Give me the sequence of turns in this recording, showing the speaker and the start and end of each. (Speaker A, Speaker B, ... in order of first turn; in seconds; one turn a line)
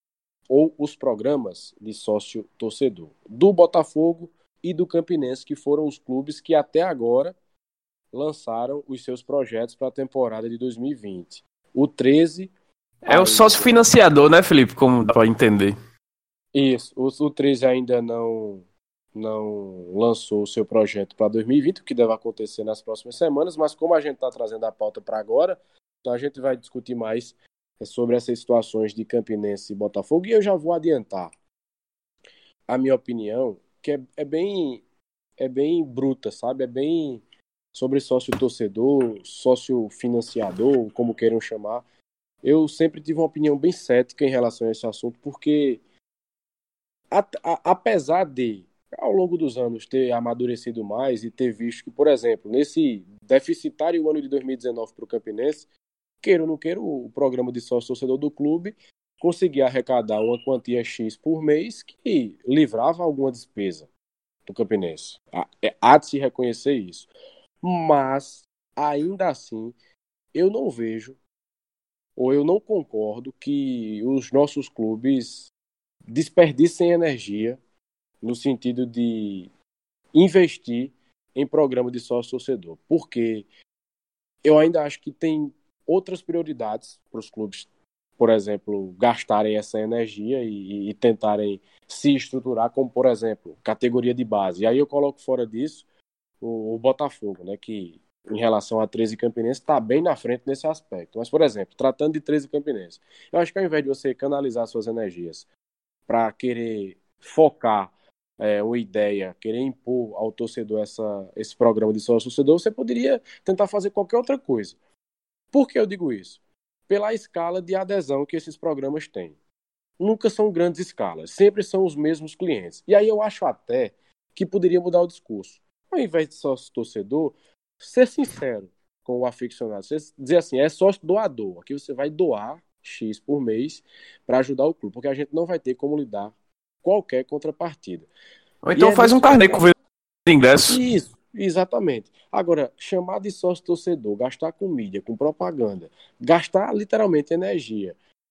Speaker A: 0.5-7.3
Speaker A: 8.1-13.8
Speaker B: 13.1-15.8
Speaker A: 16.5-31.3
Speaker A: 32.7-34.8
Speaker A: 35.4-37.2
Speaker A: 37.7-41.8
Speaker A: 42.4-45.8
Speaker A: 47.1-55.6
Speaker A: 56.2-63.9
Speaker A: 64.5-67.1
Speaker A: 67.6-69.8
Speaker A: 70.3-71.2
Speaker A: 72.2-75.5
Speaker A: 76.1-77.6
Speaker A: 78.2-79.5
Speaker A: 80.1-83.5
Speaker A: 84.4-87.7
Speaker A: 88.2-95.8
Speaker A: 96.4-105.5
Speaker A: 106.1-114.8
Speaker A: 115.5-119.4
Speaker A: 120.0-136.3
Speaker A: 136.8-138.1
Speaker B: 138.6-139.8
Speaker A: 138.8-139.7
Speaker B: 140.3-140.8
Speaker A: 140.7-148.0